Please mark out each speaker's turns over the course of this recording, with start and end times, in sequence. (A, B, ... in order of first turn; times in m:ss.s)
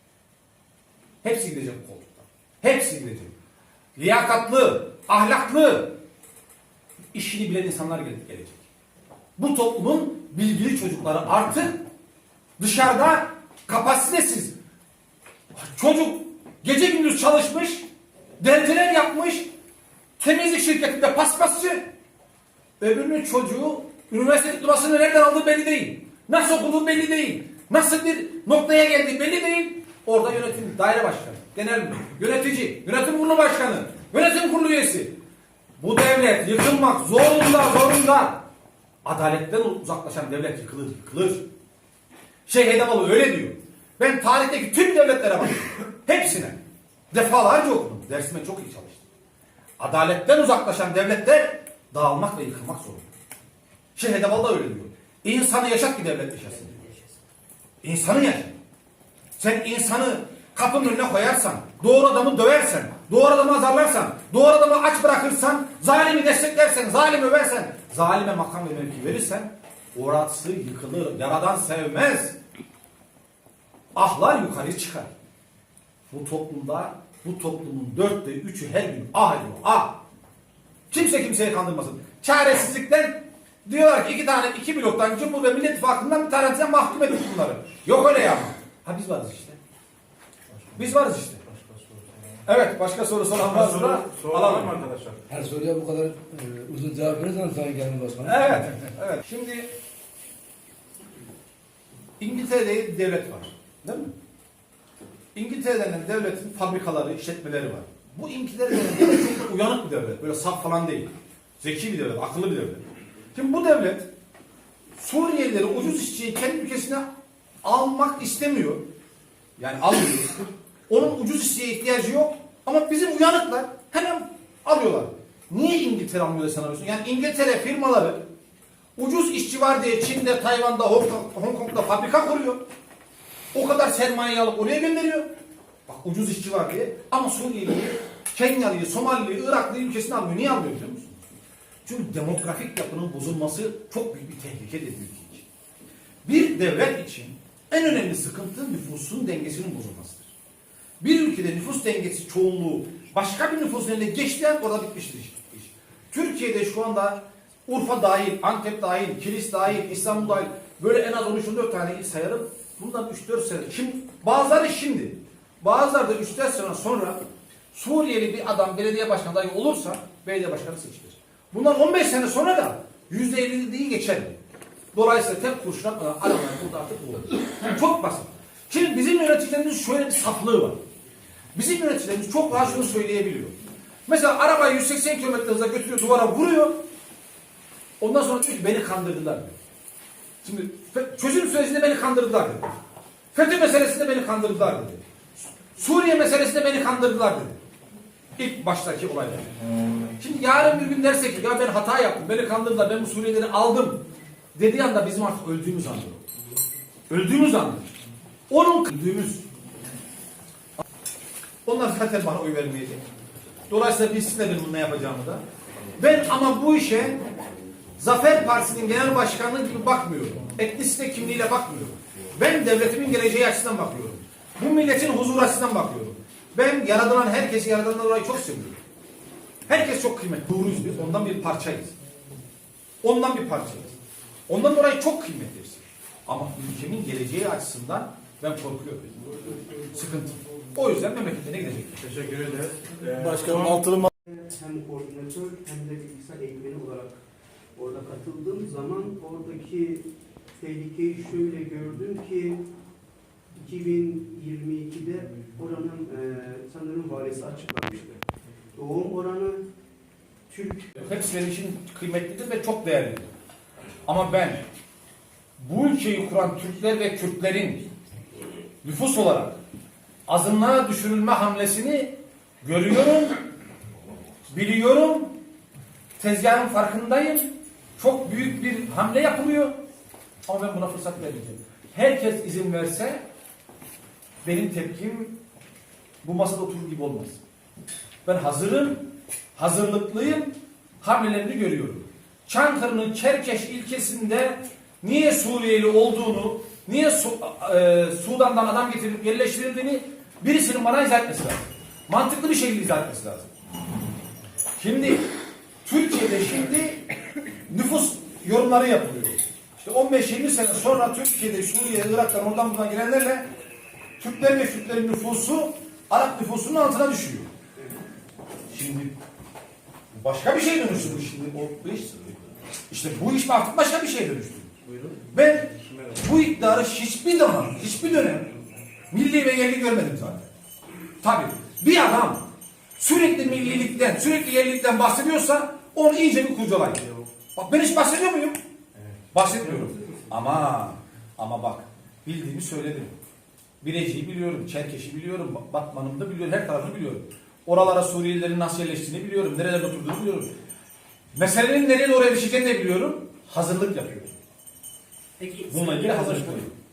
0:01.2-0:03.3 A
0:04.0-0:06.0 A
0:07.1-0:08.6 A
0:09.4-0:11.8 A
0:12.6-0:14.5 A
0:15.5-0:17.9 A
0:18.4-0:19.5 A
0:20.2-0:21.8 A
0:22.8-0:35.2 A
0:35.8-0:38.4 A
0:39.0-0:41.5 A
0:42.5-0:46.6 A
0:47.1-0:49.1 A
0:49.8-0:53.0 A
0:54.0-0:57.0 A
0:57.8-0:58.5 A
0:59.4-1:12.4 A
1:14.0-1:15.1 A
1:16.1-1:20.0 A
1:20.9-1:29.6 A
1:30.5-1:32.2 B
1:30.8-1:31.4 A
1:32.4-1:34.8 A
1:33.4-1:35.2 B
1:35.3-1:38.6 C
1:38.2-1:39.7 A
1:42.2-1:44.1 A
1:45.4-1:54.1 A
1:55.0-1:57.0 A
1:57.6-1:58.8 A
1:59.6-2:08.2 A
2:09.0-2:12.6 A
2:13.5-2:15.3 A
2:15.9-2:21.2 A
2:21.8-2:25.5 A
2:26.2-2:30.4 A
2:31.0-2:47.2 A
2:47.7-2:54.4 A
2:54.9-3:00.8 A
3:01.5-3:03.6 A
3:04.1-3:06.8 A
3:08.0-3:09.5 A
3:10.4-3:12.8 A
3:13.3-3:17.6 A
3:18.4-3:19.5 A
3:20.2-3:26.2 A
3:27.1-3:27.9 A
3:28.5-3:29.5 A
3:31.7-3:33.0 A
3:33.7-3:35.4 A
3:36.0-3:37.2 A
3:38.0-3:48.8 A
3:49.7-3:51.9 A
3:53.0-3:53.9 A
3:54.5-4:02.0 A
4:02.0-4:04.1 B
4:03.7-4:04.1 C
4:04.3-4:07.2 D
4:07.8-4:10.1 D
4:10.6-4:12.6 D
4:13.5-4:18.2 D
4:18.7-4:19.6 D
4:20.5-4:20.9 D
4:21.0-4:23.3 A
4:24.1-4:24.6 A
4:25.6-4:27.9 A
4:28.8-4:29.6 A
4:30.3-4:33.4 A
4:34.5-4:35.4 A
4:36.2-4:37.5 A
4:38.0-4:39.8 A
4:40.5-4:43.2 A
4:44.4-4:45.4 A
4:46.2-4:47.4 A
4:48.2-5:03.5 A
5:04.8-5:05.3 A
5:05.8-5:07.0 A
5:07.7-5:13.5 A
5:14.2-5:17.5 A
5:18.7-5:19.2 A
5:20.1-5:24.7 A
5:24.9-5:25.2 B
5:25.3-5:28.5 A
5:29.1-5:30.5 A
5:31.2-5:37.0 A
5:37.6-5:38.6 A
5:39.3-5:43.2 A
5:43.8-5:50.5 A
5:51.4-5:54.4 A
5:55.4-5:56.1 C
5:55.6-5:56.7 A